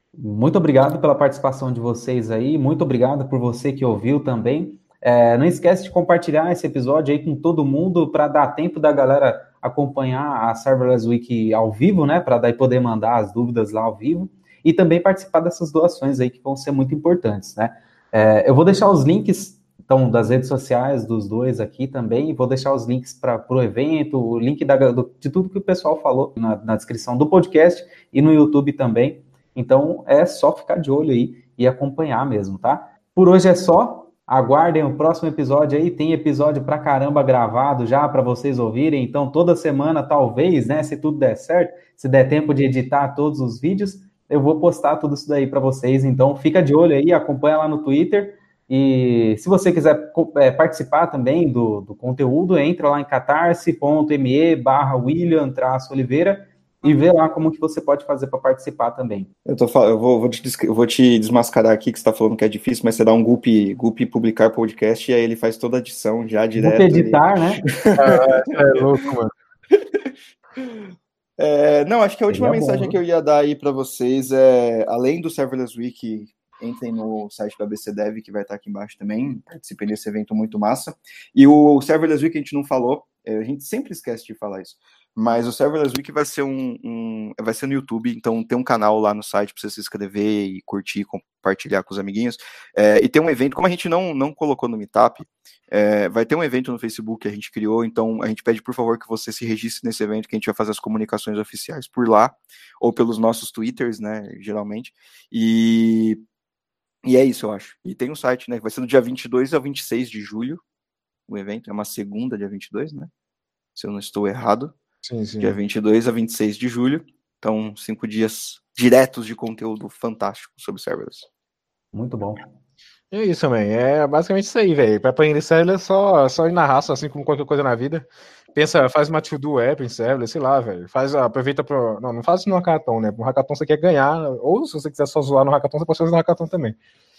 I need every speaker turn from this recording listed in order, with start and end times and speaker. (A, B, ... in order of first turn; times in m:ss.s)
0:00.1-0:59.3 A
0:59.4-1:08.2 B
1:06.6-1:07.6 A
1:08.0-1:09.3 C
1:09.7-1:10.8 B
1:11.4-1:46.2 B
1:12.3-1:13.0 A
1:47.0-1:50.6 B
1:51.3-1:53.1 B
1:53.8-1:54.7 B
1:55.0-1:55.6 C
1:55.4-2:01.3 B
2:01.9-2:02.5 A
2:03.1-2:16.8 C